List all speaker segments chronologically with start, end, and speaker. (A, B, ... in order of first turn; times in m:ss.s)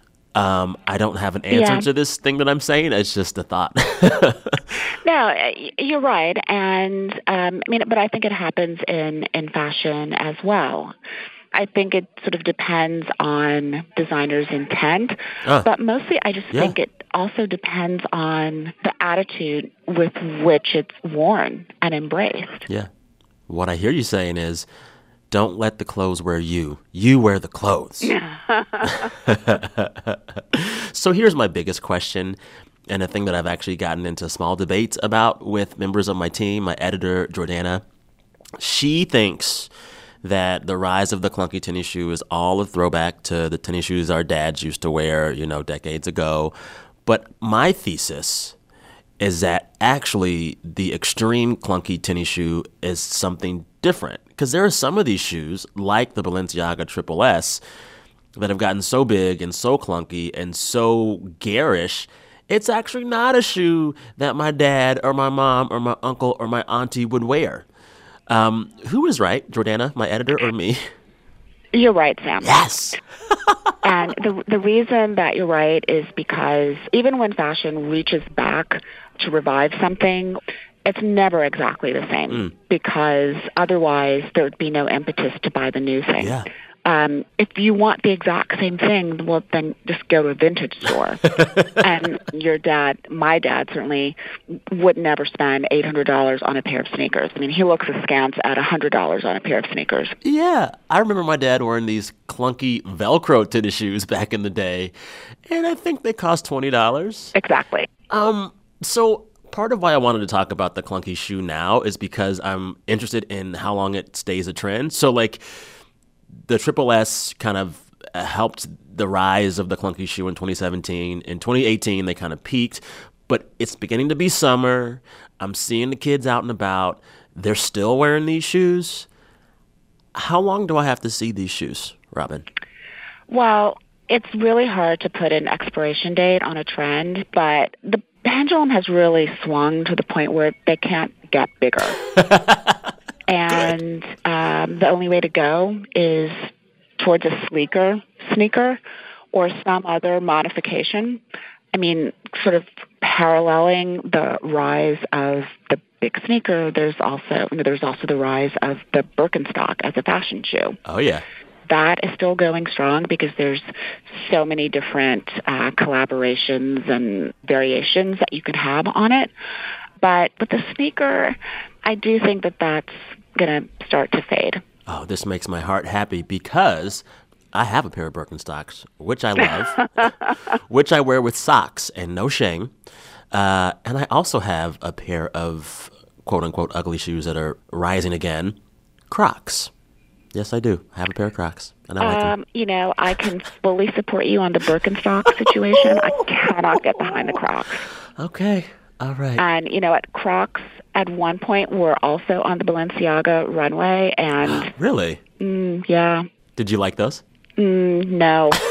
0:00.4-0:04.6 A
0:01.5-0:01.9 B
0:05.0-0:10.9 B
0:11.5-0:22.6 B
0:23.5-0:24.6 A
0:25.3-0:28.1 A
0:28.0-0:29.1 B
0:28.9-0:32.4 A
0:32.9-0:37.8 A
0:38.6-0:39.7 A
0:40.2-0:46.5 A
0:47.0-0:48.6 A
0:49.2-0:57.6 A
0:58.4-1:07.6 A
1:08.3-1:10.9 A
1:11.7-1:12.6 B
1:12.4-1:13.5 A
1:13.8-1:31.2 B
1:26.2-1:26.5 A
1:31.3-1:31.7 A
1:31.8-1:34.2 B
1:34.7-1:40.1 B
1:40.2-1:44.9 A
1:45.5-1:47.3 A
1:47.4-1:47.9 B
1:48.1-1:55.4 A
1:56.5-2:09.1 A
2:10.1-2:12.5 A
2:13.3-2:22.0 B
2:22.2-2:22.8 A
2:23.3-2:28.8 B
2:23.5-2:23.8 A
2:29.3-2:31.2 B
2:31.7-2:40.8 B
2:40.9-2:41.2 A
2:41.7-2:49.3 B
2:50.0-2:54.6 B
2:54.9-3:00.1 A
3:00.0-3:00.3 B
3:00.7-3:02.7 A
3:03.3-3:08.6 A
3:09.1-3:09.7 A
3:10.3-3:12.3 A
3:12.0-3:17.8 B
3:17.1-3:17.4 A
3:18.2-3:19.4 A
3:19.4-3:24.7 B
3:24.4-3:25.2 A
3:25.4-3:26.3 B
3:26.6-3:27.2 A
3:27.6-3:28.6 B